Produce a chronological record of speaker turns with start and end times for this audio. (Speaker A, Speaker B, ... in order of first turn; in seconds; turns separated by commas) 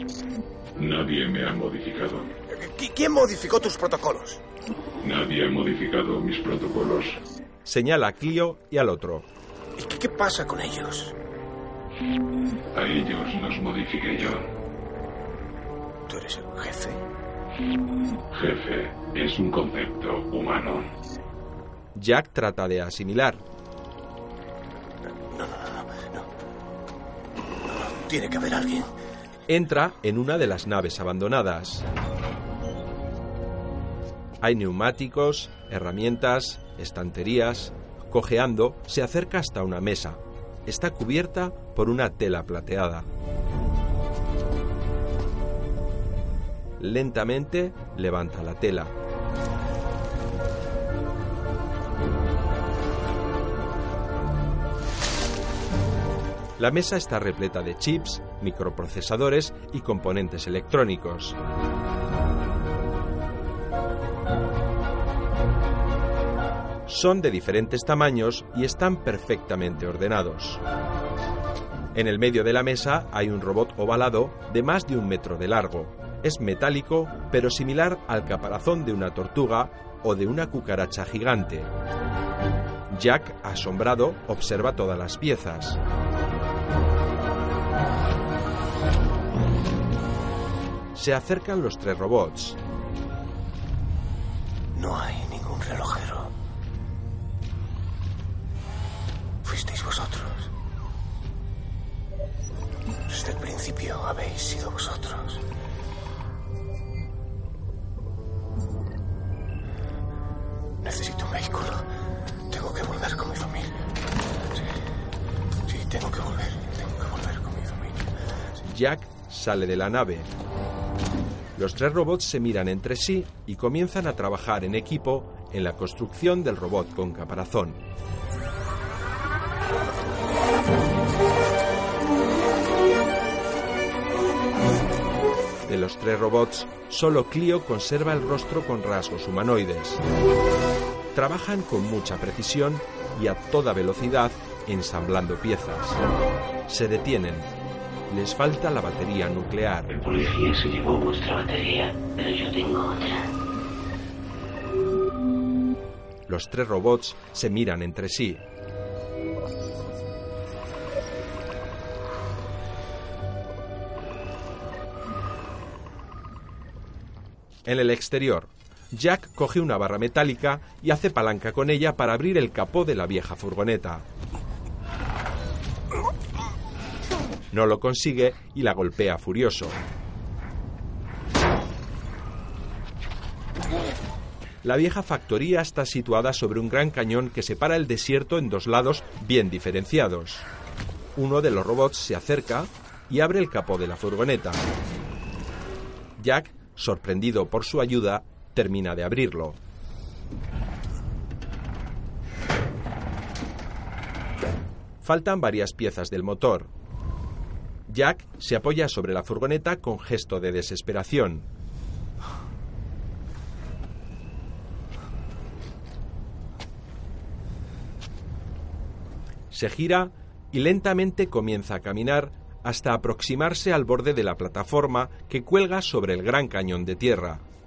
Speaker A: 0.8-2.3, Speaker B: 2.5-4.4, Speaker A: 5.0-7.2, Speaker C: 7.6-9.3, Speaker B: 9.8-11.1, Speaker A: 12.7-14.5, Speaker B: 16.1-17.0, Speaker A: 18.3-20.9, Speaker C: 21.9-23.4, Speaker B: 25.3-26.3, Speaker B: 27.6-28.9, Speaker C: 29.5-31.8, Speaker C: 34.4-43.1, Speaker C: 46.8-48.9, Speaker C: 56.6-61.4, Speaker C: 66.9-70.6, Speaker C: 71.9-81.7, Speaker C: 82.9-85.8, Speaker C: 90.9-92.6, Speaker B: 94.7-96.3, Speaker B: 99.4-100.5, Speaker B: 103.1-105.4, Speaker B: 110.8-111.8, Speaker B: 112.5-113.8, Speaker B: 114.5-114.8, Speaker B: 115.7-118.1, Speaker C: 118.7-120.3, Speaker C: 121.5-127.8, Speaker C: 135.7-140.0, Speaker C: 141.1-146.0, Speaker C: 146.7-147.5, Speaker C: 148.1-149.9, Speaker D: 150.1-153.2, Speaker C: 156.3-158.4, Speaker C: 167.7-174.0, Speaker C: 177.5-179.8, Speaker C: 184.6-190.4, Speaker C: 191.2-194.6, Speaker C: 196.2-199.6, Speaker C: 205.0-206.7, Speaker C: 207.9-211.4, Speaker C: 219.5-227.4